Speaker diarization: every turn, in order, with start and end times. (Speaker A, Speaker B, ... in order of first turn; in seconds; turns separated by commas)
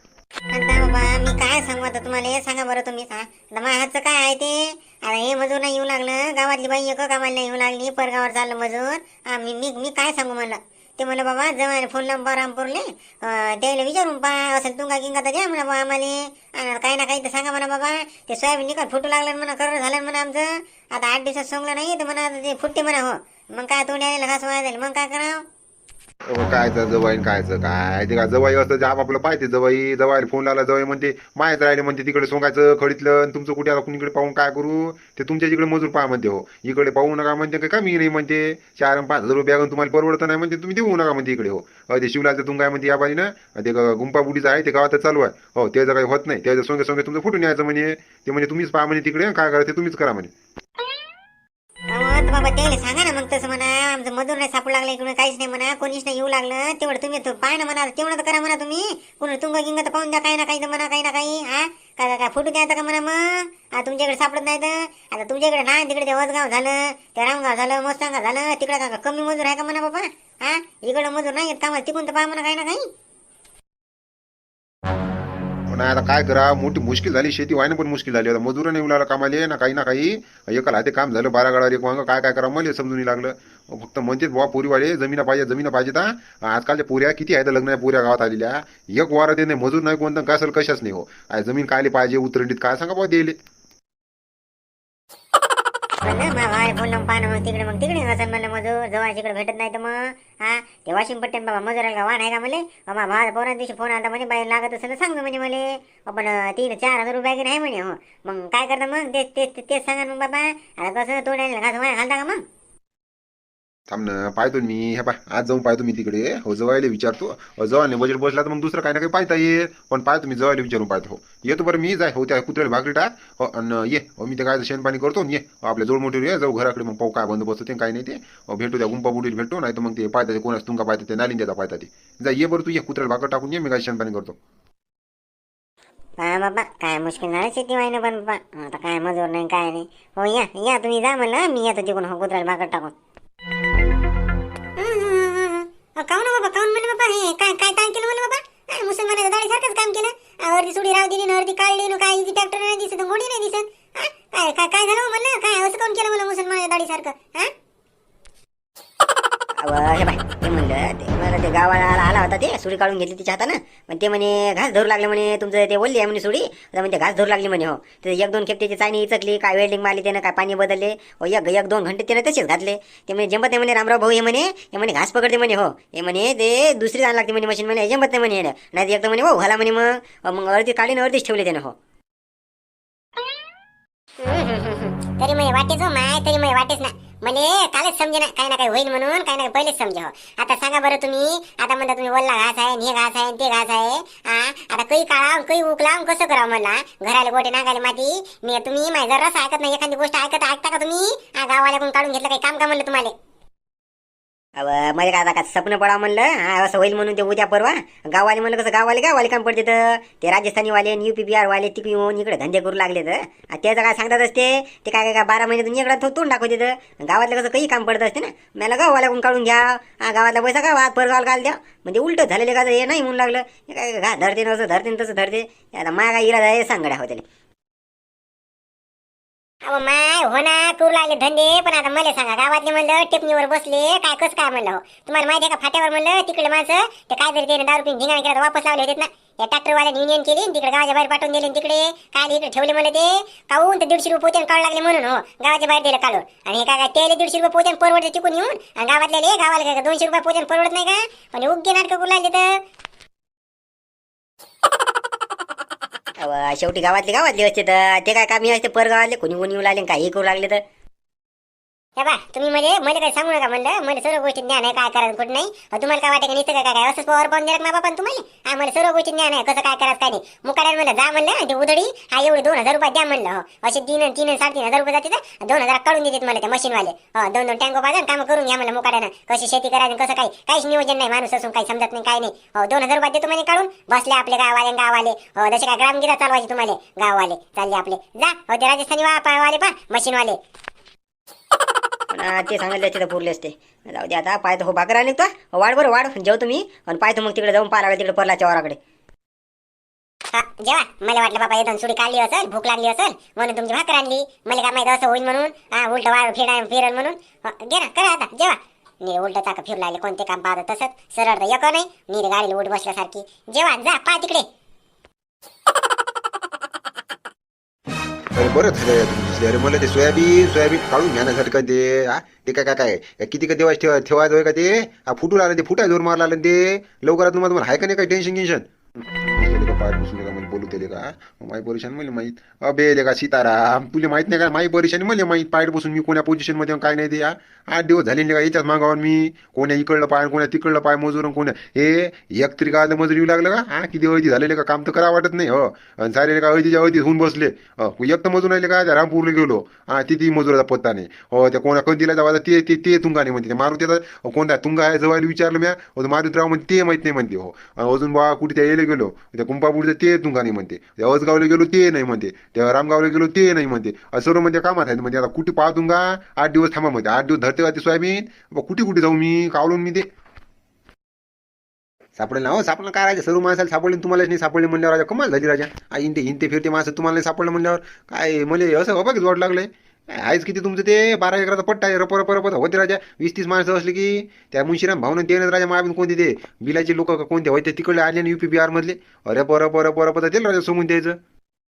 Speaker A: 0.5-25.4, Speaker B: 26.3-50.3, Speaker A: 51.9-72.8, Speaker B: 75.7-93.3, Speaker A: 96.0-112.4, Speaker B: 113.9-134.4, Speaker A: 136.2-142.9, Speaker A: 144.8-157.5, Speaker C: 159.6-181.7, Speaker A: 184.2-203.1, Speaker C: 204.6-227.2, Speaker A: 229.6-252.6, Speaker C: 256.2-260.6, Speaker A: 262.0-290.4, Speaker C: 292.1-298.8, Speaker A: 300.3-314.5, Speaker B: 318.3-370.0, Speaker B: 372.2-391.2